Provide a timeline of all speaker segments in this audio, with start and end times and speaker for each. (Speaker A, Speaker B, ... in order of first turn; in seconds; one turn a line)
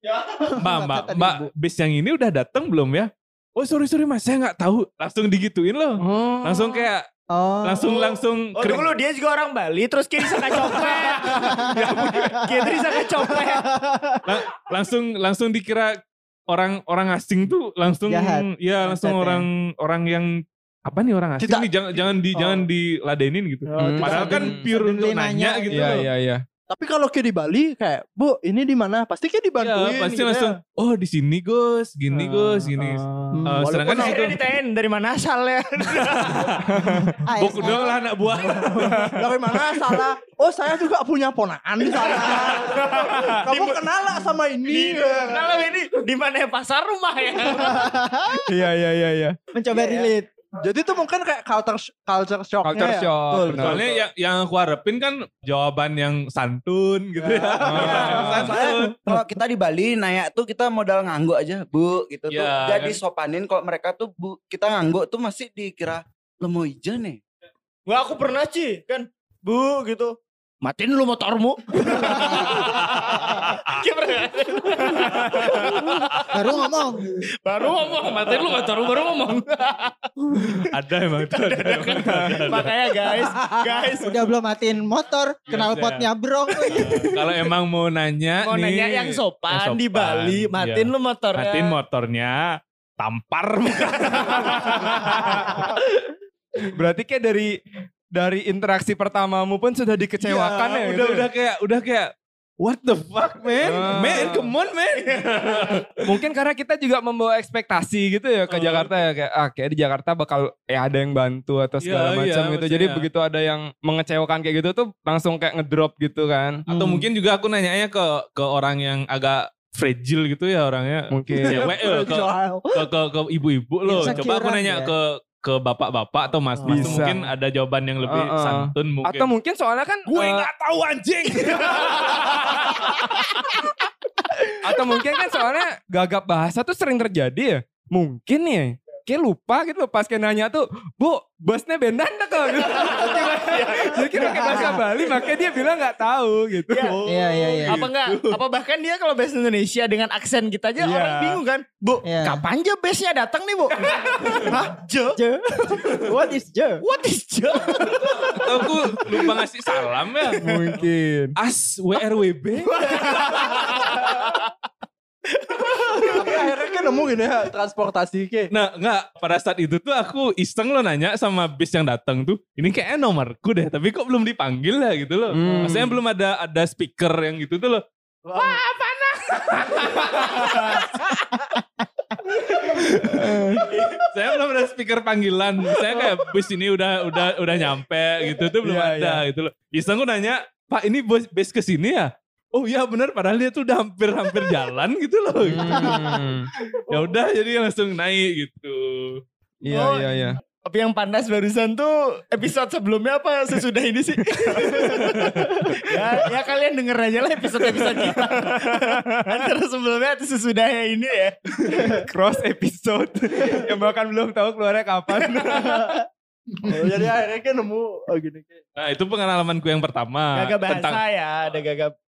Speaker A: 0.4-1.5
Speaker B: 0.6-7.0
Speaker C: 6.0-6.8
Speaker A: 7.3-8.1
Speaker B: 7.6-8.9
Speaker D: 8.6-13.7
Speaker B: 10.5-12.1
Speaker B: 14.3-15.9
Speaker B: 16.5-26.1
Speaker A: 18.1-19.5
Speaker E: 21.4-21.7
Speaker A: 22.4-22.6
Speaker E: 23.7-24.5
Speaker C: 23.8-24.7
Speaker A: 24.0-26.1
Speaker C: 25.7-26.4
Speaker E: 26.7-30.5
Speaker B: 29.6-34.4
Speaker E: 32.1-34.2
Speaker A: 33.3-33.7
Speaker D: 33.9-36.6
Speaker B: 36.0-36.7
Speaker C: 36.7-37.2
Speaker A: 37.2-38.0
Speaker B: 37.4-39.5
Speaker E: 38.3-45.7
Speaker C: 38.9-39.2
Speaker D: 42.0-43.9
Speaker D: 44.7-47.9
Speaker A: 47.6-48.5
Speaker C: 48.3-49.4
Speaker A: 49.5-50.3
Speaker D: 49.7-50.1
Speaker E: 50.6-53.1
Speaker C: 52.6-53.9
Speaker B: 53.4-59.0
Speaker E: 57.2-58.7
Speaker C: 57.6-58.5
Speaker F: 58.4-67.2
Speaker B: 62.3-63.0
Speaker D: 67.9-76.3
Speaker B: 72.1-73.8
Speaker A: 76.3-77.2
Speaker D: 77.4-84.2
Speaker B: 78.1-78.7
Speaker B: 80.6-82.7
Speaker A: 84.0-87.1
Speaker B: 85.5-86.1
Speaker B: 86.7-95.8
Speaker D: 88.4-91.8
Speaker D: 94.1-94.6
Speaker C: 94.6-95.6
Speaker C: 96.7-97.5
Speaker C: 98.1-101.3
Speaker B: 100.2-106.1
Speaker C: 103.6-104.5
Speaker D: 105.2-105.8
Speaker C: 106.0-116.7
Speaker B: 108.5-108.9
Speaker B: 111.8-113.1
Speaker B: 116.7-129.3
Speaker A: 116.7-117.0
Speaker C: 121.1-121.8
Speaker E: 121.4-122.8
Speaker A: 123.9-124.9
Speaker E: 126.6-127.0
Speaker C: 126.7-127.2
Speaker C: 128.1-130.5
Speaker B: 130.1-133.1
Speaker C: 134.6-147.9
Speaker D: 142.6-144.8
Speaker A: 144.3-144.8
Speaker D: 146.7-147.0
Speaker A: 147.1-147.8
Speaker D: 147.6-155.2
Speaker C: 150.8-151.4
Speaker A: 152.0-152.4
Speaker A: 155.2-156.8
Speaker D: 156.8-159.2
Speaker B: 158.2-160.5
Speaker C: 160.4-161.4
Speaker B: 161.4-163.4
Speaker D: 162.7-164.5
Speaker D: 165.3-166.5
Speaker E: 165.9-168.5
Speaker B: 168.5-177.8
Speaker C: 175.3-176.0
Speaker E: 178.3-178.6
Speaker D: 179.4-180.8
Speaker B: 179.9-180.8
Speaker C: 183.0-183.7
Speaker B: 183.6-196.2
Speaker C: 188.6-189.2
Speaker C: 195.4-196.5
Speaker B: 196.9-199.2
Speaker C: 199.6-200.4
Speaker D: 199.7-212.0
Speaker B: 204.7-205.6
Speaker C: 208.4-209.5
Speaker C: 211.6-216.0
Speaker D: 215.2-215.8
Speaker E: 216.6-218.6
Speaker B: 218.8-221.0
Speaker D: 220.3-221.9